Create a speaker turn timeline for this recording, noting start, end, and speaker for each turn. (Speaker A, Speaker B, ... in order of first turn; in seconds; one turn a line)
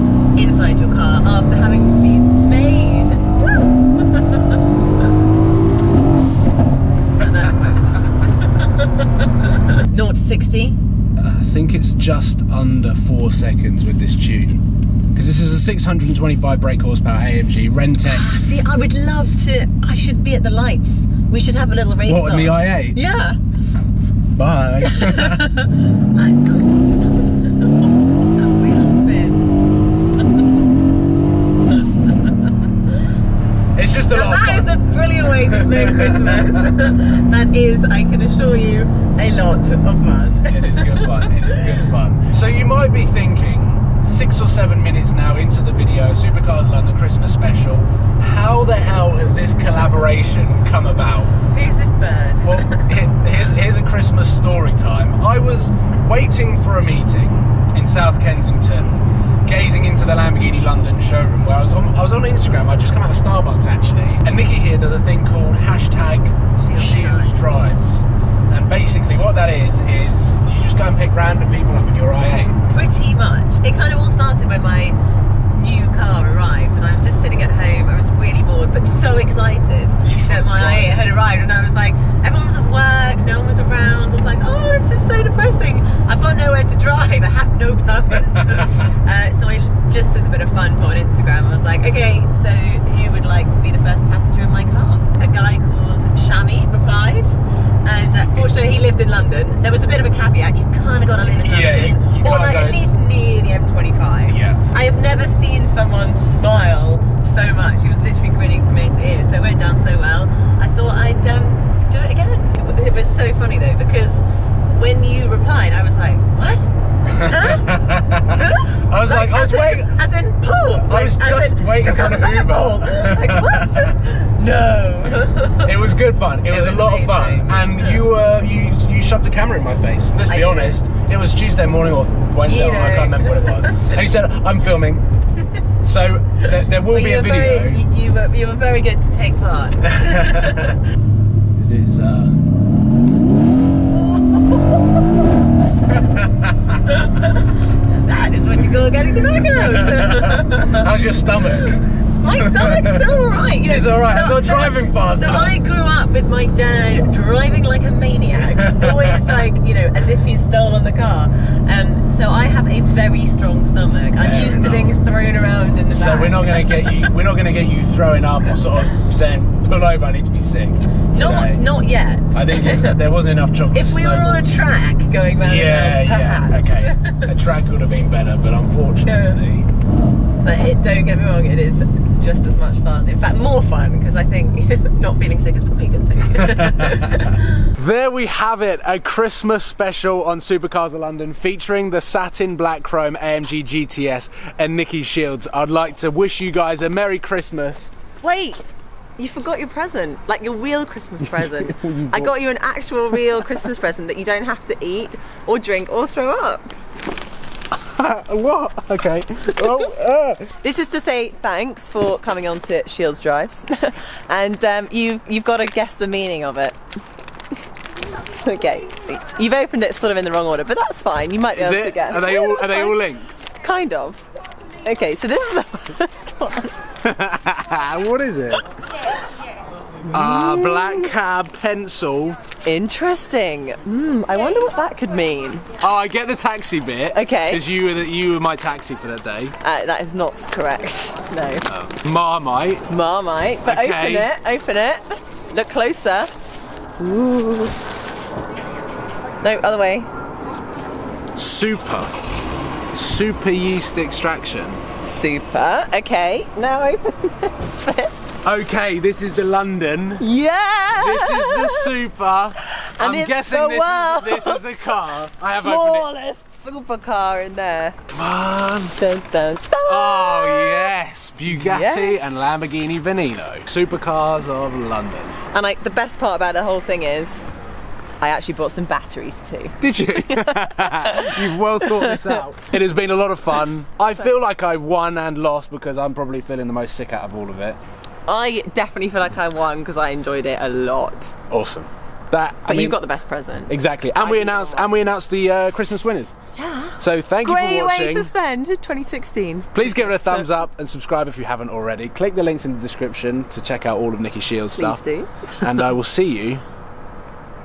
Speaker A: 0.3-4.6
Speaker A: 7.2-10.8
Speaker B: 11.2-14.6
Speaker B: 15.1-18.3
Speaker A: 18.0-23.4
Speaker B: 22.0-23.0
Speaker B: 24.4-25.5
Speaker A: 24.8-29.5
Speaker A: 32.9-33.1
Speaker B: 33.8-36.7
Speaker A: 34.0-41.9
Speaker B: 40.5-51.4
Speaker A: 51.5-52.9
Speaker B: 52.4-72.6
Speaker A: 66.6-67.4
Speaker A: 72.7-75.0
Speaker A: 75.6-114.2
Speaker B: 80.0-81.0
Speaker B: 101.2-102.8
Speaker B: 104.3-104.7
Speaker A: 114.8-125.8
Speaker B: 117.1-119.9
Speaker B: 120.9-123.9
Speaker B: 125.6-135.1
Speaker A: 126.5-128.0
Speaker A: 130.2-130.8
Speaker A: 132.4-134.0
Speaker B: 135.8-137.8
Speaker A: 136.8-140.8
Speaker B: 141.6-142.4
Speaker A: 143.9-145.9
Speaker B: 145.9-146.8
Speaker A: 146.9-167.1
Speaker B: 149.7-153.0
Speaker B: 153.6-155.5
Speaker B: 158.6-158.9
Speaker B: 164.2-165.0
Speaker B: 165.9-171.7
Speaker A: 171.1-173.0
Speaker B: 172.3-174.5
Speaker A: 173.7-177.3
Speaker B: 175.4-179.7
Speaker A: 179.1-179.4
Speaker A: 180.4-187.7
Speaker B: 186.4-187.1
Speaker B: 187.7-197.9
Speaker A: 198.2-198.6
Speaker A: 199.2-206.8
Speaker B: 201.2-202.3
Speaker B: 207.8-210.6
Speaker A: 209.6-209.9
Speaker A: 210.6-216.8
Speaker A: 218.3-224.2
Speaker B: 221.6-223.5
Speaker A: 224.8-226.8
Speaker B: 227.0-228.7
Speaker A: 230.1-231.1
Speaker B: 230.1-232.4
Speaker A: 232.7-235.7
Speaker B: 235.8-239.6
Speaker A: 237.1-237.6
Speaker A: 239.6-241.7
Speaker B: 241.7-242.9
Speaker A: 242.9-246.3
Speaker B: 243.7-244.3
Speaker A: 247.0-247.8
Speaker A: 249.4-250.1
Speaker B: 251.3-252.1
Speaker B: 252.9-254.8
Speaker A: 255.0-258.4
Speaker B: 258.4-260.3
Speaker A: 260.2-261.9
Speaker B: 260.9-266.1
Speaker A: 262.8-264.8
Speaker A: 265.4-268.0
Speaker B: 268.1-269.0
Speaker A: 269.0-270.9
Speaker B: 269.8-275.4
Speaker A: 271.5-272.5
Speaker A: 275.5-277.4
Speaker A: 278.2-282.4
Speaker B: 279.8-287.8
Speaker A: 288.3-291.3
Speaker B: 291.5-293.0
Speaker A: 292.6-294.9
Speaker B: 293.7-296.4
Speaker A: 296.6-300.5
Speaker B: 297.0-298.3
Speaker B: 299.7-305.0
Speaker A: 304.8-305.8
Speaker B: 305.6-306.6